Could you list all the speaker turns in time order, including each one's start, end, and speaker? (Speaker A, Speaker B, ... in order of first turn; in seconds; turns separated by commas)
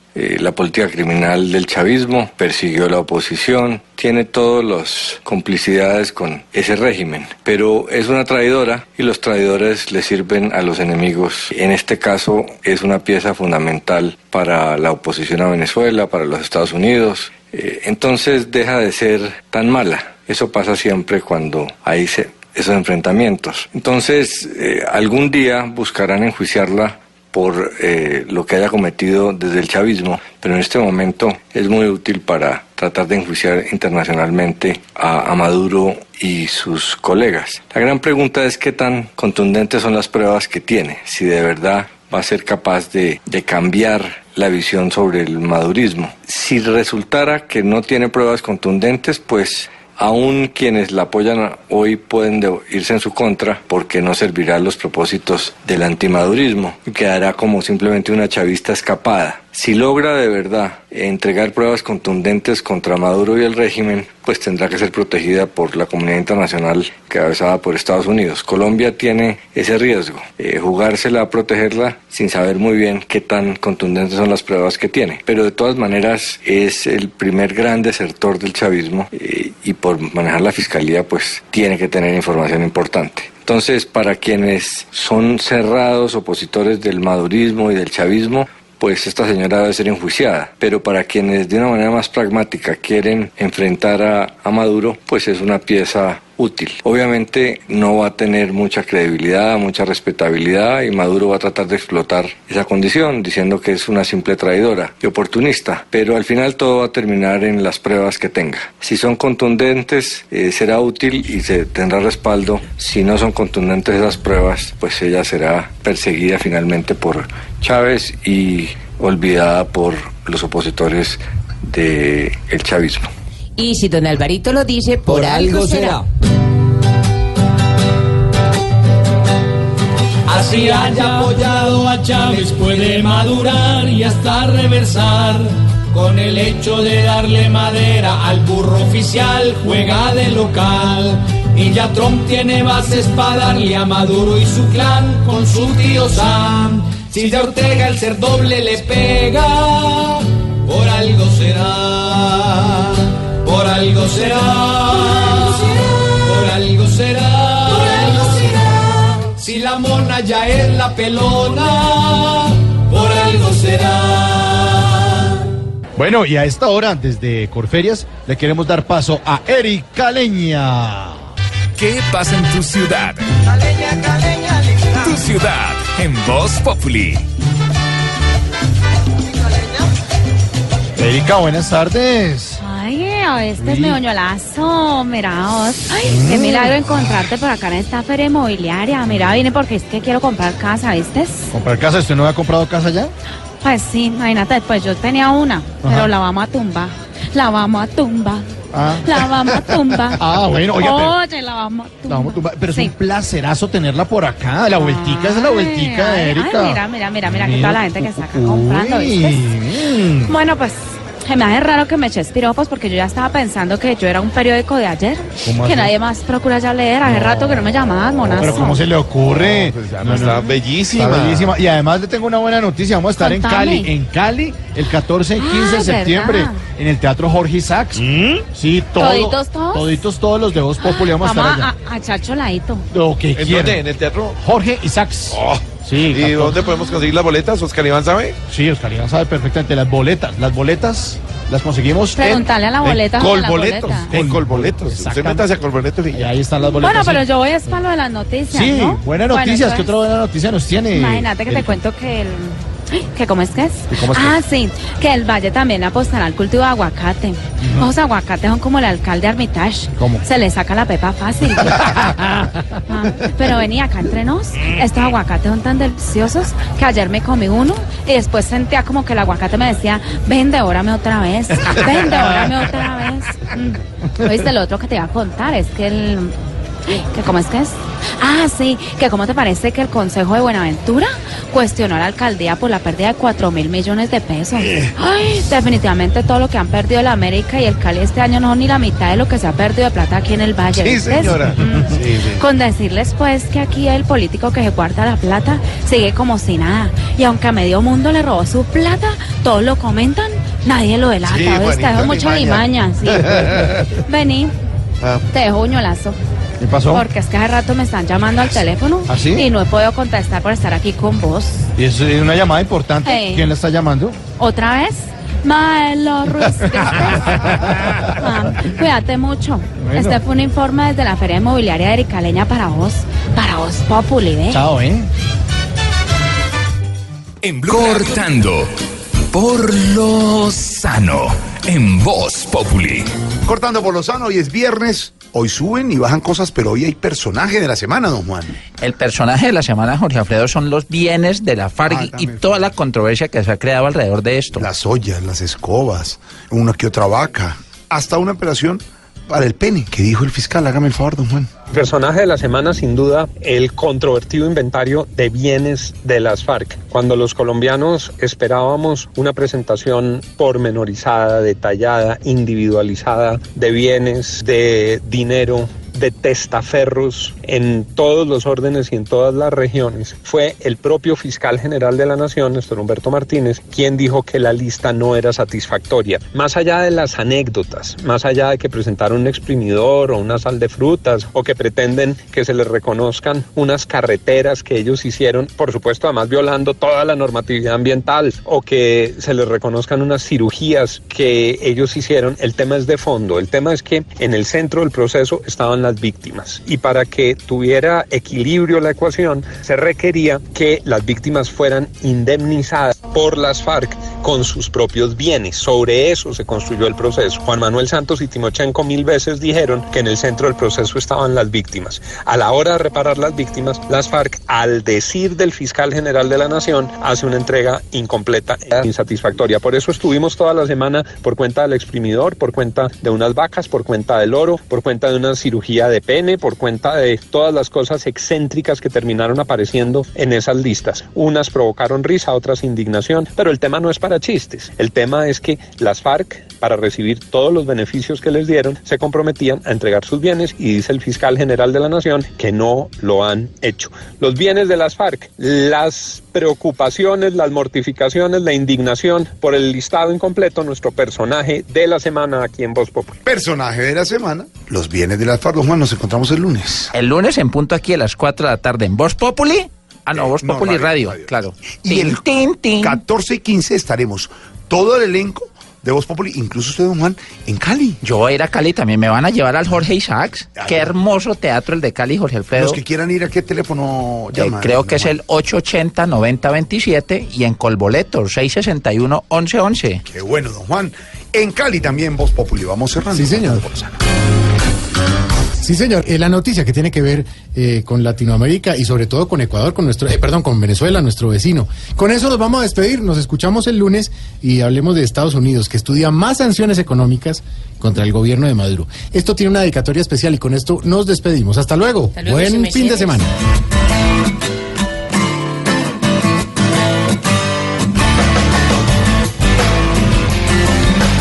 Speaker A: 0.1-123.1, Speaker B: 123.6-126.0, Speaker C: 125.3-125.9, Speaker C: 130.3-165.0, Speaker D: 166.0-171.2, Speaker E: 171.8-173.3, Speaker E: 175.0-177.2, Speaker D: 180.9-182.6, Speaker F: 182.6-191.4, Speaker D: 183.6-184.0, Speaker D: 186.0-187.2, Speaker D: 191.5-193.1, Speaker F: 193.6-198.4, Speaker D: 195.8-196.1, Speaker D: 198.7-201.2, Speaker F: 199.0-200.2, Speaker F: 200.7-202.9, Speaker D: 202.1-210.4, Speaker F: 204.7-209.4, Speaker F: 210.2-218.8, Speaker D: 215.4-215.9, Speaker D: 217.0-217.6, Speaker D: 218.2-231.7, Speaker G: 219.2-221.6, Speaker F: 223.2-223.8, Speaker F: 225.4-226.6, Speaker G: 228.0-228.3, Speaker F: 229.0-230.0, Speaker F: 230.8-232.8, Speaker D: 232.9-237.0, Speaker G: 233.3-234.4, Speaker G: 235.3-238.4, Speaker D: 238.4-245.5, Speaker F: 242.2-244.1, Speaker G: 244.0-246.3, Speaker D: 246.1-247.3, Speaker F: 246.8-249.9, Speaker D: 248.5-251.7, Speaker F: 250.9-261.9, Speaker D: 253.9-254.4, Speaker D: 259.9-260.2, Speaker F: 262.9-276.3, Speaker F: 276.9-304.5, Speaker G: 290.8-292.4, Speaker G: 301.2-302.7, Speaker F: 305.3-306.1, Speaker D: 306.6-307.1, Speaker F: 306.9-311.6, Speaker D: 309.1-309.5, Speaker D: 311.8-314.2, Speaker F: 313.0-313.4, Speaker F: 314.4-317.4, Speaker D: 317.1-318.0, Speaker F: 318.2-324.6, Speaker D: 319.8-320.2, Speaker D: 324.5-325.1, Speaker E: 327.4-328.7, Speaker E: 329.3-333.1, Speaker H: 333.4-338.6, Speaker I: 338.8-344.6, Speaker H: 341.8-342.8, Speaker H: 344.6-351.5, Speaker J: 351.7-453.2, Speaker H: 453.2-456.9, Speaker I: 456.9-463.0, Speaker H: 460.1-462.3, Speaker H: 462.8-468.0, Speaker I: 468.0-472.8, Speaker H: 470.5-471.0, Speaker H: 472.5-475.1, Speaker I: 474.3-480.0, Speaker H: 480.1-483.9, Speaker K: 483.1-483.6, Speaker K: 485.6-503.3, Speaker B: 502.1-503.2